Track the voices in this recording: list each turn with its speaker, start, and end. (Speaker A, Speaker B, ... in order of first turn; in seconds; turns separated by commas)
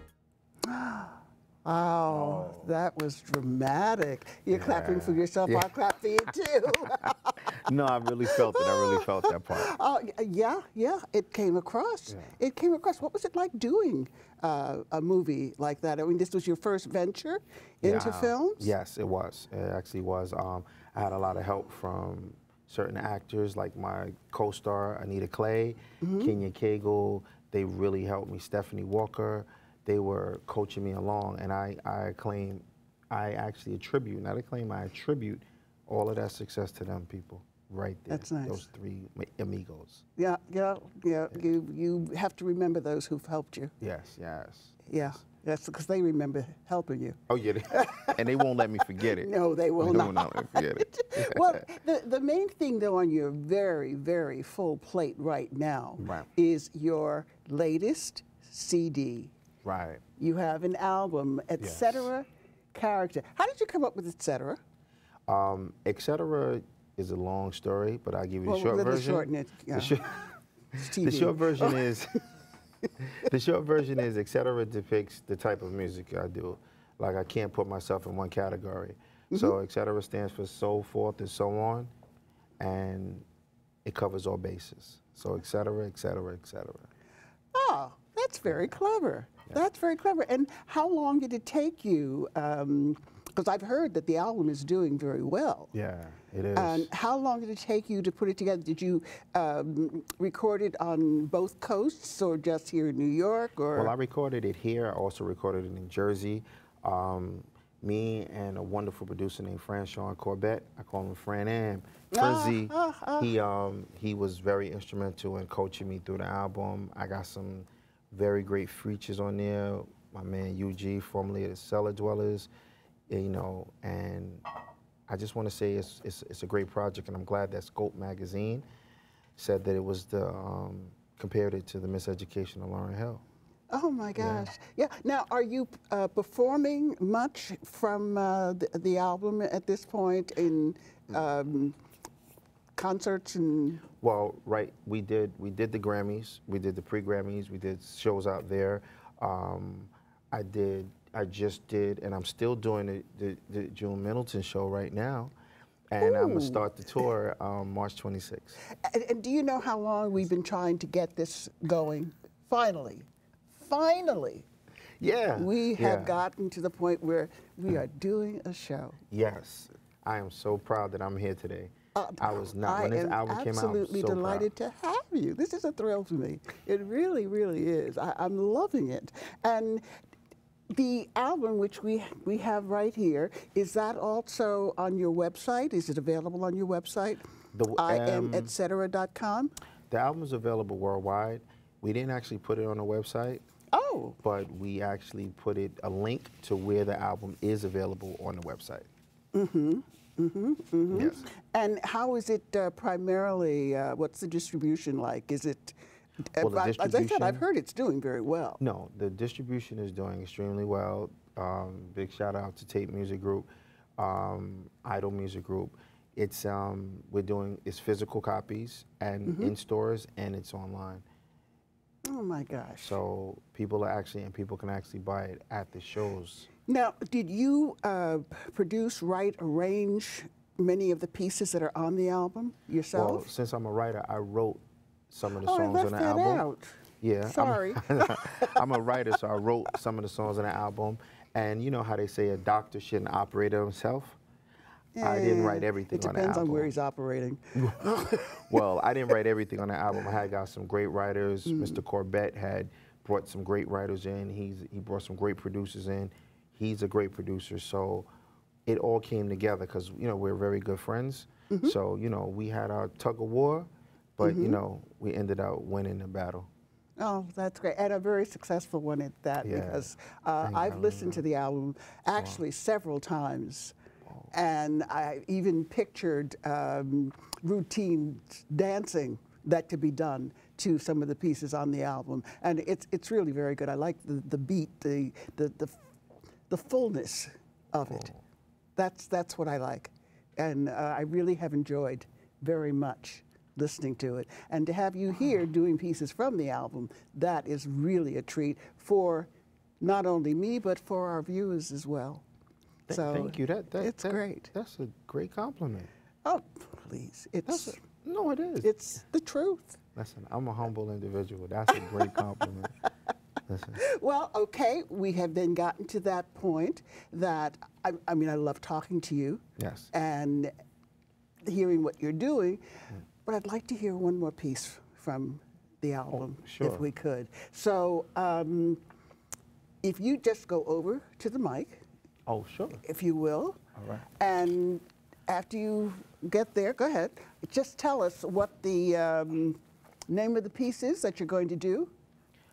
Speaker A: 0.7-7.3, Speaker B: 2.1-2.7, Speaker B: 4.5-5.7, Speaker B: 7.5-9.7, Speaker A: 8.3-18.7, Speaker B: 17.8-40.0, Speaker A: 26.0-26.3, Speaker A: 38.1-38.6, Speaker A: 40.2-43.7, Speaker B: 43.8-45.2, Speaker A: 44.9-47.2, Speaker B: 47.3-51.6, Speaker A: 47.7-48.2, Speaker A: 49.2-59.3, Speaker B: 56.0-56.3, Speaker B: 59.6-60.0, Speaker A: 60.2-64.6, Speaker B: 61.6-62.1, Speaker B: 65.3-70.1, Speaker A: 68.5-70.0, Speaker B: 70.8-72.1, Speaker A: 70.8-71.8, Speaker B: 73.2-81.9, Speaker B: 82.6-83.2, Speaker B: 83.8-86.9, Speaker A: 87.5-95.7, Speaker B: 88.4-88.7, Speaker B: 95.7-96.9, Speaker A: 96.5-103.9, Speaker B: 103.7-122.5, Speaker A: 112.1-113.3, Speaker B: 123.1-124.4, Speaker B: 125.1-128.7, Speaker B: 129.4-133.2, Speaker A: 133.7-141.8, Speaker B: 134.2-134.5, Speaker A: 142.8-143.8, Speaker B: 144.0-155.3, Speaker B: 155.9-158.6, Speaker A: 156.0-156.7, Speaker A: 158.8-164.4, Speaker B: 165.0-166.2, Speaker A: 165.4-169.0, Speaker B: 169.1-174.5, Speaker A: 171.9-179.8, Speaker A: 180.7-187.2, Speaker B: 187.5-188.5, Speaker A: 187.8-189.5, Speaker B: 189.9-193.4, Speaker A: 193.7-194.2, Speaker B: 194.2-198.9, Speaker A: 199.3-205.8, Speaker B: 200.9-201.2, Speaker A: 206.3-208.6, Speaker B: 206.4-207.4, Speaker B: 208.6-221.0, Speaker A: 219.2-219.5, Speaker A: 222.1-223.0, Speaker B: 222.8-226.5, Speaker A: 226.7-233.2, Speaker B: 232.9-236.4, Speaker A: 235.4-238.5, Speaker B: 237.0-244.2, Speaker A: 244.9-248.6, Speaker B: 245.0-246.7, Speaker B: 247.5-258.1, Speaker A: 251.5-251.8, Speaker B: 258.6-266.5, Speaker A: 261.5-261.8, Speaker A: 264.2-264.6, Speaker A: 267.0-273.7, Speaker B: 269.4-269.9, Speaker B: 270.4-271.2, Speaker B: 272.1-272.4, Speaker A: 274.3-285.8, Speaker A: 286.5-288.1, Speaker B: 287.8-288.2, Speaker A: 288.8-299.3, Speaker A: 299.8-302.2, Speaker B: 302.9-305.9, Speaker A: 302.9-304.5, Speaker A: 306.2-307.8, Speaker B: 307.5-308.7, Speaker A: 308.6-309.8, Speaker B: 309.9-312.7, Speaker B: 313.5-313.8, Speaker A: 313.8-320.5, Speaker B: 319.6-319.9, Speaker A: 321.4-322.6, Speaker A: 323.2-328.8, Speaker B: 326.1-326.8, Speaker A: 329.8-331.8, Speaker B: 332.3-332.8, Speaker A: 332.8-333.6, Speaker B: 333.8-334.1, Speaker A: 334.2-339.6, Speaker A: 340.1-341.9